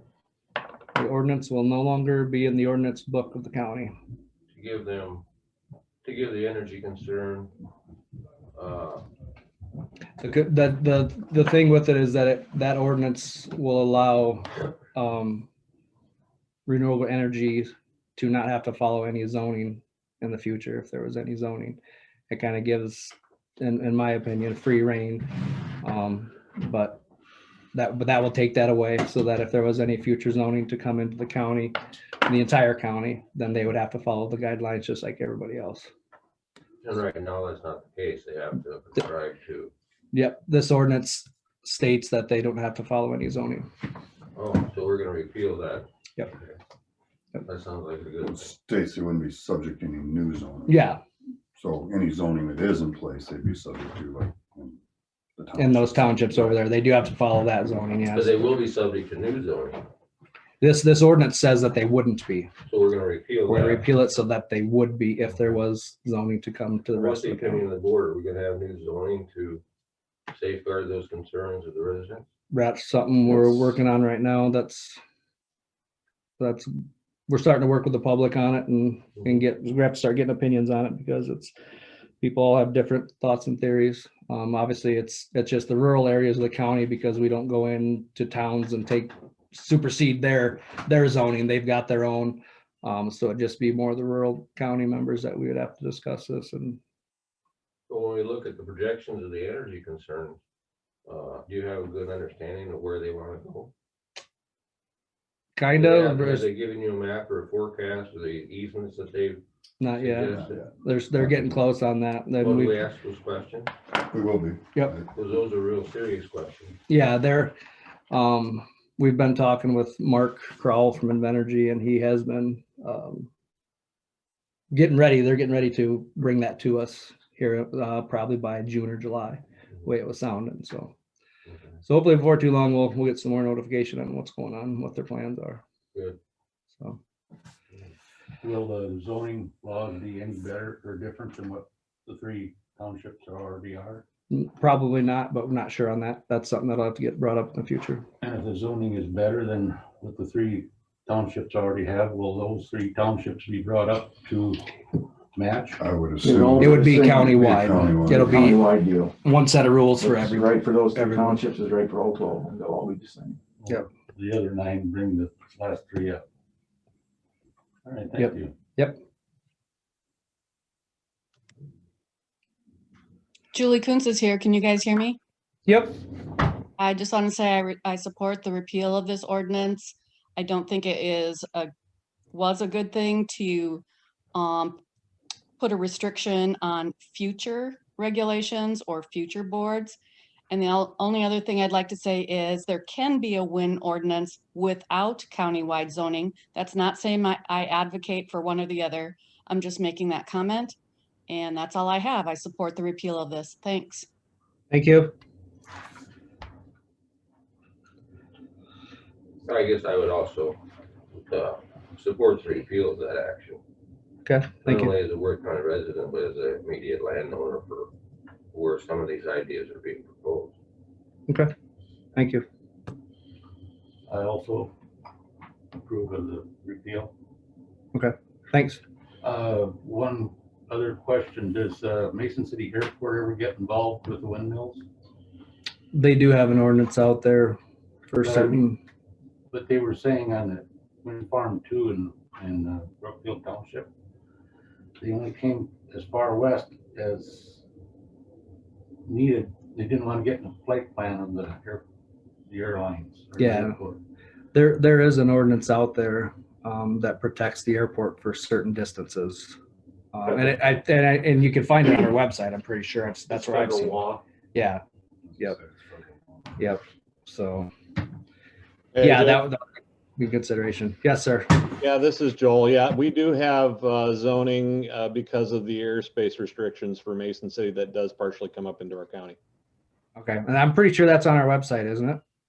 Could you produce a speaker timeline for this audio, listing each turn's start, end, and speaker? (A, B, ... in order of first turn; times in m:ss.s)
0:00.9-0:03.9 A
0:04.5-0:05.2 B
0:06.0-0:07.5 B
0:08.5-0:09.0 B
0:10.2-0:15.5 A
0:16.6-0:27.0 A
0:27.7-0:35.9 A
0:36.8-0:39.7 B
0:40.1-0:43.6 A
0:44.3-0:46.6 B
0:47.4-0:48.5 B
0:48.2-0:50.8 C
0:50.7-0:51.0 A
0:51.5-0:54.8 C
0:55.4-0:56.2 C
0:55.6-0:58.4 A
0:58.1-0:59.8 B
1:00.6-1:02.5 A
1:02.7-1:03.9 B
1:03.5-1:07.6 A
1:06.9-1:09.6 B
1:10.3-1:12.3 B
1:12.5-1:15.0 A
1:16.4-1:21.5 A
1:22.2-1:36.8 A
1:37.9-1:40.4 B
1:41.0-1:43.7 B
1:45.6-1:46.5 A
1:45.7-1:49.4 B
1:49.8-1:52.8 A
1:49.9-1:50.6 B
1:50.3-1:51.5 C
1:52.4-1:53.7 B
1:54.0-1:55.0 C
1:55.1-1:56.8 B
1:56.9-1:57.5 A
1:58.1-2:03.3 A
2:04.7-2:10.9 A
2:11.5-2:11.8 B
2:11.8-2:15.6 A
2:18.4-2:24.0 D
2:24.3-2:28.0 A
2:28.2-2:34.6 D
2:35.4-2:35.8 D
2:35.8-2:38.4 C
2:36.2-2:39.1 E
2:36.6-2:38.6 A
2:39.2-2:41.5 A
2:40.0-2:43.4 E
2:43.6-2:46.2 D
2:47.8-2:48.5 D
2:48.2-2:49.0 A
2:53.5-2:55.2 F
2:55.6-2:56.0 A
2:56.8-3:01.7 F
3:02.3-3:03.8 F
3:04.3-3:04.8 F
3:05.6-3:10.0 F
3:10.5-3:20.8 F
3:21.3-3:24.0 F
3:24.7-3:25.1 A
3:29.4-3:30.6 B
3:31.1-3:33.6 B
3:34.2-3:34.9 A
3:34.6-3:37.9 B
3:38.5-3:40.5 B
3:42.1-3:42.4 A
3:44.1-3:44.7 D
3:45.8-3:47.1 D
3:47.9-3:48.8 A
3:49.2-3:54.8 D
3:55.9-3:58.8 A
3:59.5-4:03.9 D
4:05.0-4:07.3 D
4:09.1-4:11.8 D
4:12.5-4:14.0 D
4:13.4-4:13.8 A
4:14.5-4:19.6 A
4:20.1-4:24.8 A
4:26.6-4:27.7 A
4:28.9-4:29.4 G
4:29.0-4:29.6 A
4:30.2-4:31.7 A
4:31.8-4:39.4 G
4:40.2-4:42.2 A